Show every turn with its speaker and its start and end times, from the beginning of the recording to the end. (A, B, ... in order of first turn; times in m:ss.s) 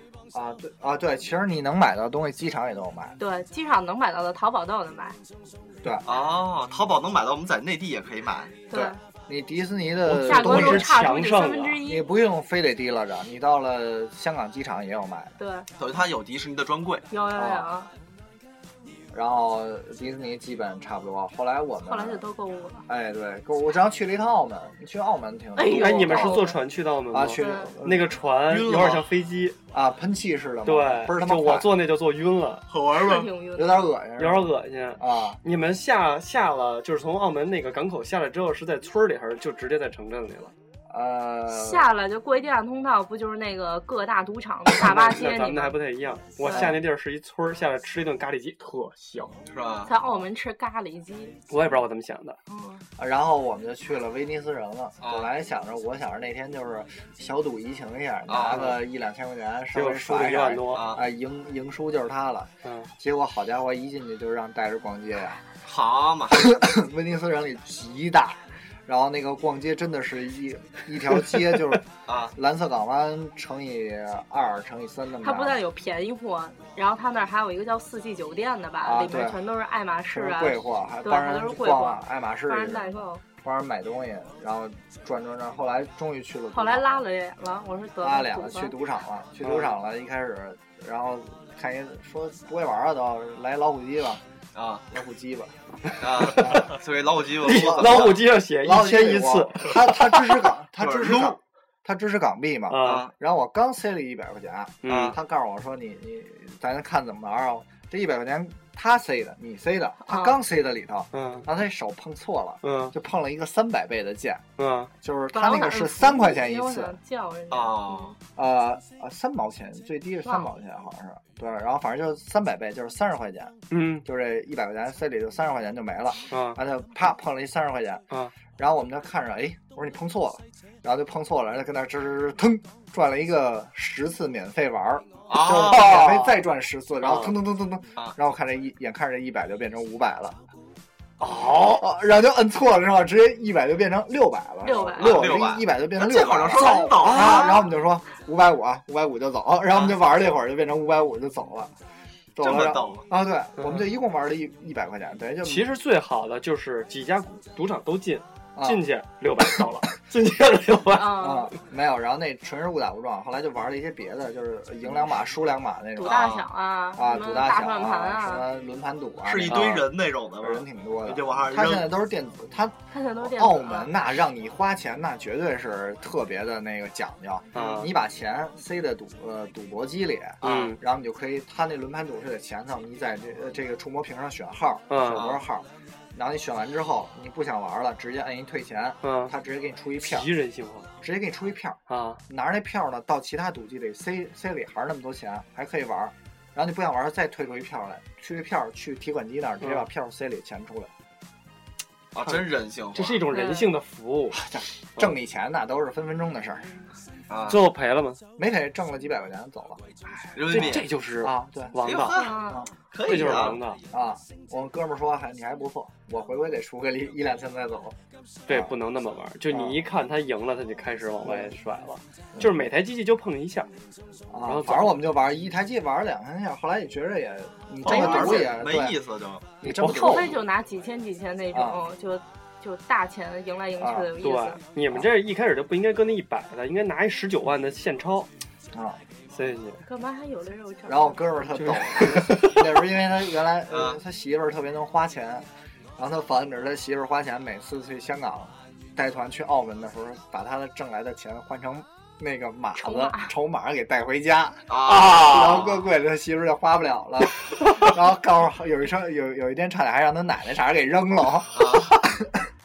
0:00.3-0:03.2 A
0:03.2-0:05.2 B
0:06.0-0:08.6 C
0:08.7-0:09.0 B
0:08.7-0:10.9 A
0:10.1-0:11.8 D
0:10.2-0:12.1 B
0:11.8-0:15.3 A
0:15.4-0:15.7 B
0:15.8-0:17.1 C
0:17.1-0:17.9 B
0:17.4-0:17.7 A
0:19.1-0:22.2 A
0:21.9-0:22.9 B
0:22.9-0:26.6 A
0:25.6-0:26.6 B
0:25.7-0:29.6 D
0:27.1-0:28.2 A
0:27.3-0:27.8 B
0:28.5-0:29.1 C
0:29.7-0:31.7 A
0:30.6-0:32.6 D
0:32.7-0:33.3 C
0:32.9-0:33.9 B
0:33.6-0:35.4 A
0:34.2-0:40.5 D
0:40.9-0:41.9 A
0:41.5-0:45.8 B
0:44.8-0:49.4 D
0:46.4-0:46.8 B
0:46.4-0:46.8 A
0:49.5-0:49.9 C
0:49.9-0:51.4 B
0:51.5-0:52.4 D
0:52.5-0:52.8 B
0:53.0-1:05.4 A
0:55.0-0:55.3 C
0:58.3-0:58.8 C
0:58.5-0:58.8 D
0:59.7-1:00.9 D
1:00.7-1:01.0 C
1:02.6-1:02.9 D
1:05.6-1:06.5 C
1:06.3-1:15.6 A
1:12.1-1:12.3 C
1:15.2-1:23.2 B
1:18.8-1:19.4 A
1:20.1-1:27.0 A
1:26.5-1:28.8 B
1:28.0-1:34.2 A
1:29.4-1:29.8 D
1:34.6-1:34.9 C
1:34.9-1:35.5 A
1:36.0-1:38.2 C
1:36.1-1:36.8 A
1:37.4-1:40.4 D
1:37.4-1:54.4 A
1:40.8-1:41.4 C
1:42.7-1:43.1 D
1:42.8-1:43.1 C
1:44.8-1:45.2 D
1:44.9-1:45.2 C
1:50.0-1:50.4 B
1:51.1-1:51.5 D
1:52.6-1:53.0 D
1:54.6-1:54.9 D
1:55.0-1:57.0 A
1:55.3-1:58.2 B
1:57.5-1:58.2 C
1:58.4-2:03.5 A
2:00.2-2:00.5 B
2:03.7-2:04.0 D
2:04.0-2:08.0 A
2:06.3-2:06.6 D
2:08.6-2:20.4 A
2:15.3-2:16.2 C
2:15.8-2:16.2 D
2:17.0-2:17.4 D
2:21.2-2:21.9 D
2:21.7-2:31.7 A
2:24.6-2:25.3 B
2:25.0-2:27.7 C
2:32.4-2:35.7 A
2:32.4-2:33.1 C
2:33.6-2:33.9 D
2:35.4-2:41.3 D
2:38.6-2:38.8 A
2:40.9-2:41.5 B
2:41.1-2:46.2 A
2:46.0-2:48.4 B
2:46.0-2:46.5 C
2:47.0-3:10.3 A
2:49.2-2:52.0 C
2:49.5-2:49.8 D
2:52.9-2:53.9 B
2:57.5-2:57.9 D
3:00.4-3:00.8 C
3:00.4-3:00.8 D
3:04.9-3:05.3 D
3:05.1-3:05.4 C
3:09.0-3:09.3 D
3:10.0-3:10.9 D
3:11.0-3:20.9 A
3:11.9-3:12.2 D
3:19.6-3:19.9 D
3:22.1-3:23.2 C
3:22.2-3:24.4 D
3:23.3-3:23.8 B
3:24.3-3:26.8 A
3:27.3-3:27.6 C
3:27.5-3:28.2 D
3:28.4-3:31.8 A
3:30.4-3:30.9 C
3:30.5-3:32.2 D
3:31.8-3:33.6 C
3:32.1-3:32.7 B
3:33.0-3:33.8 D
3:33.9-3:38.0 A
3:38.5-3:43.7 D
3:38.5-3:38.7 A
3:39.5-3:39.8 A
3:41.2-3:41.6 A
3:44.3-3:49.0 A
3:44.5-3:45.0 D
3:47.8-3:49.8 C
3:47.9-3:48.3 D
3:49.6-3:50.4 A
3:49.8-3:50.1 D
3:49.8-3:54.6 B
3:51.5-3:51.8 A
3:53.8-3:54.1 A
3:54.2-3:58.3 D
3:58.7-3:59.0 A
3:59.3-3:59.8 D
3:59.8-4:01.2 B
4:00.9-4:05.5 A
4:01.5-4:02.6 D
4:03.7-4:04.0 C
4:06.0-4:22.5 A
4:12.8-4:13.3 B
4:14.7-4:15.9 C
4:14.9-4:15.6 D
4:21.5-4:22.0 C